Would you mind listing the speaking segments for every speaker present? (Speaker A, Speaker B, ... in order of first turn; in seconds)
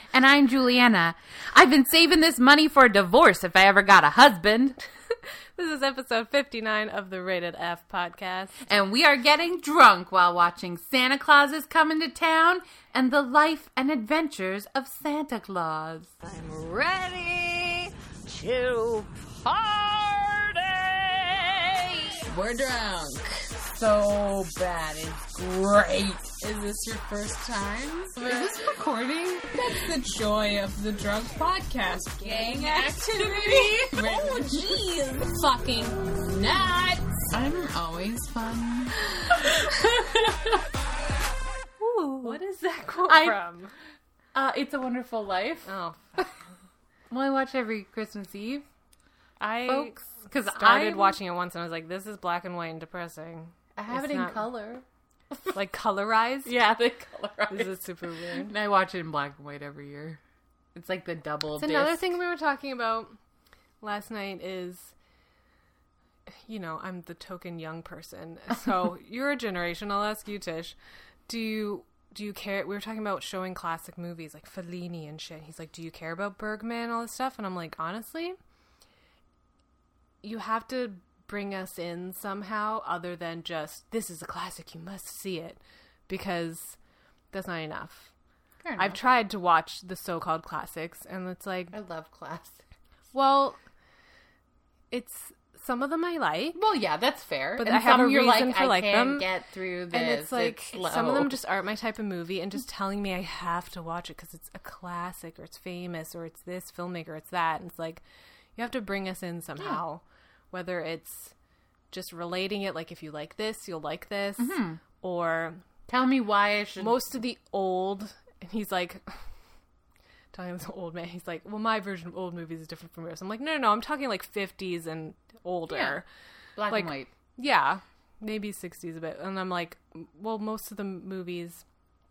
Speaker A: 0.1-4.8, 8.6-16.1, 25.5-26.0, 28.1-29.7, 32.2-34.7, 37.3-38.9, 39.6-40.5, 42.1-42.4, 43.0-43.4, 44.3-46.3, 47.1-48.6, 49.6-51.2, 53.8-55.5, 56.4-60.2, 60.7-62.1, 88.6-89.0, 91.7-92.6, 96.5-101.4, 114.4-114.8, 115.9-117.0, 125.7-126.0, 126.6-127.1
Speaker B: 5.5-8.6, 41.8-43.7, 45.6-46.4, 49.4-54.4, 55.5-56.6, 57.5-58.5, 61.6-63.1, 63.8-64.9, 66.3-70.7, 71.3-78.4, 80.2-86.8, 87.3-88.1, 88.8-91.8, 93.1-93.6, 94.9-96.6, 97.6-99.3, 99.9-108.0, 108.5-111.3, 111.9-115.6, 116.8-119.2, 120.3-126.0, 126.7-131.6
Speaker C: 16.2-28.6, 29.5-37.2